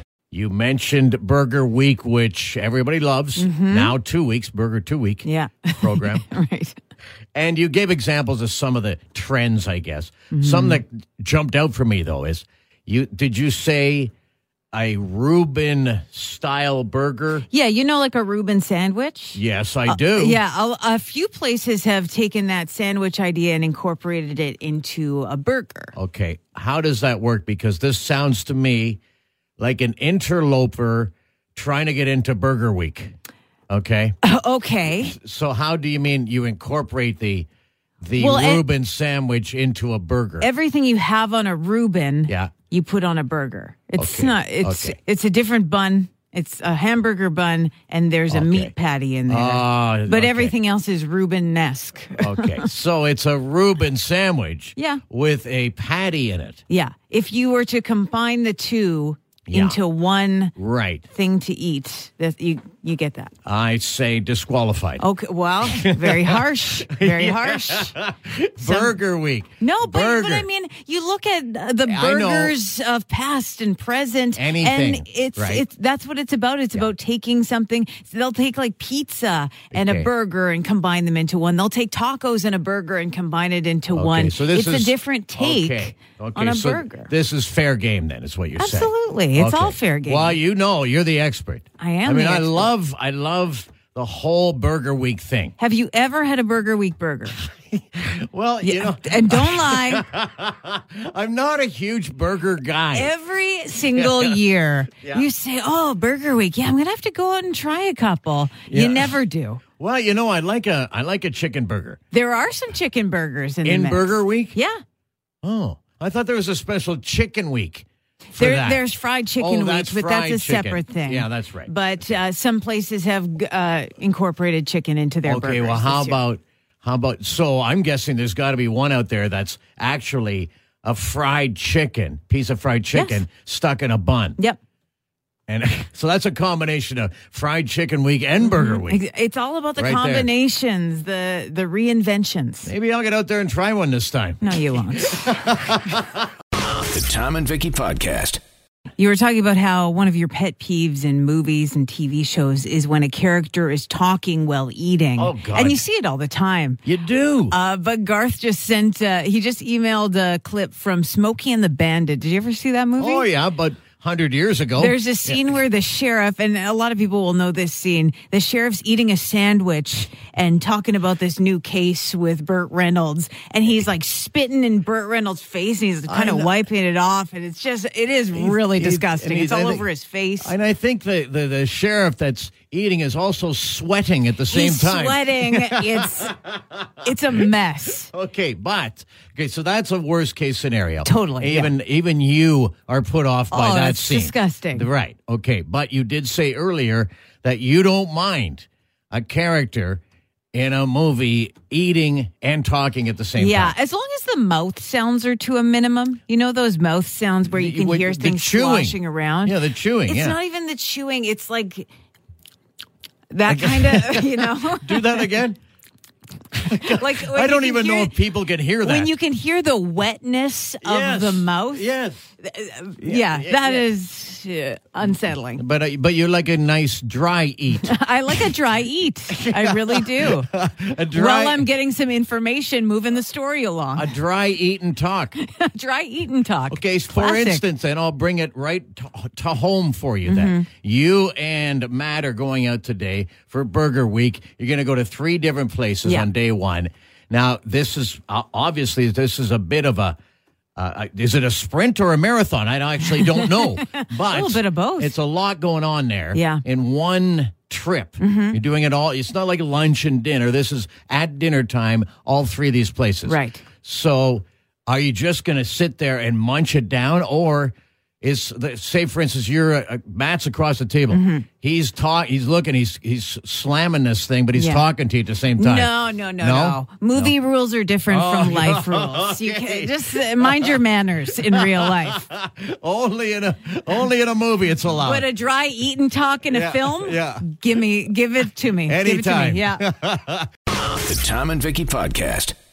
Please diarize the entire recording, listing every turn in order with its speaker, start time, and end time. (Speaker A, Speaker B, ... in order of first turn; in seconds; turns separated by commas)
Speaker A: 0.3-6.3, Speaker B: 3.4-4.0, Speaker B: 5.2-6.8, Speaker A: 7.3-14.1, Speaker B: 10.3-10.8, Speaker A: 14.7-17.5, Speaker B: 17.5-25.9, Speaker A: 19.4-20.4, Speaker A: 25.9-29.0, Speaker A: 29.6-33.1, Speaker A: 33.7-34.2, Speaker B: 34.2-35.1, Speaker A: 35.0-37.5, Speaker A: 38.0-40.5, Speaker B: 38.2-38.7, Speaker B: 40.4-52.7, Speaker A: 44.0-45.0, Speaker A: 48.3-48.7, Speaker A: 49.3-50.5, Speaker A: 52.2-56.6, Speaker B: 54.8-55.0, Speaker B: 56.7-60.5, Speaker A: 59.5-59.8, Speaker A: 60.6-61.0, Speaker B: 61.1-63.3, Speaker A: 63.5-65.0, Speaker B: 65.0-68.0, Speaker A: 65.7-70.5, Speaker B: 68.6-69.0, Speaker B: 69.6-87.1, Speaker A: 71.8-72.5, Speaker A: 74.4-75.6, Speaker A: 79.7-80.1, Speaker A: 83.9-95.5, Speaker B: 88.6-90.4, Speaker B: 91.8-92.7, Speaker B: 95.6-97.4, Speaker A: 97.7-103.1, Speaker B: 98.6-100.1, Speaker B: 102.9-109.6, Speaker A: 104.0-104.4, Speaker A: 108.7-109.1, Speaker A: 109.8-112.0, Speaker B: 112.1-114.8, Speaker A: 113.7-114.6, Speaker A: 115.4-118.8, Speaker B: 118.3-126.2, Speaker A: 119.4-122.2, Speaker A: 125.2-134.4, Speaker B: 132.9-133.2, Speaker A: 135.5-139.0, Speaker B: 138.4-142.7, Speaker A: 139.8-140.3, Speaker A: 142.7-146.2, Speaker B: 144.4-145.4, Speaker C: 146.8-148.4, Speaker B: 149.0-156.8, Speaker A: 155.2-155.8, Speaker A: 156.8-157.6, Speaker B: 157.5-163.3, Speaker A: 163.0-165.6, Speaker B: 164.8-180.5, Speaker A: 176.1-176.6, Speaker A: 178.3-179.9, Speaker A: 180.4-187.5, Speaker B: 184.5-186.4, Speaker B: 187.0-188.1, Speaker A: 188.0-200.0, Speaker B: 191.1-191.7, Speaker B: 193.5-194.9, Speaker A: 200.5-203.7, Speaker B: 203.4-211.9, Speaker A: 207.5-210.4, Speaker B: 213.3-215.3, Speaker A: 213.5-215.6, Speaker A: 216.5-219.1, Speaker B: 216.7-218.2, Speaker B: 218.8-221.9, Speaker A: 220.8-222.3, Speaker B: 222.4-225.6, Speaker A: 223.0-223.9, Speaker A: 225.6-227.9, Speaker B: 227.8-230.5, Speaker A: 229.3-231.7, Speaker B: 231.1-234.1, Speaker A: 233.9-235.4, Speaker B: 235.3-237.6, Speaker A: 236.7-250.2, Speaker B: 240.3-240.7, Speaker B: 246.0-246.3, Speaker A: 250.8-277.3, Speaker B: 253.1-255.2, Speaker B: 256.3-256.6, Speaker B: 258.2-258.6, Speaker B: 263.2-263.6, Speaker B: 271.1-271.5, Speaker B: 274.5-274.8, Speaker B: 275.6-282.2, Speaker A: 278.1-280.8, Speaker A: 281.4-285.2, Speaker B: 285.0-289.9, Speaker A: 286.5-287.5, Speaker A: 288.9-290.5, Speaker C: 291.0-292.6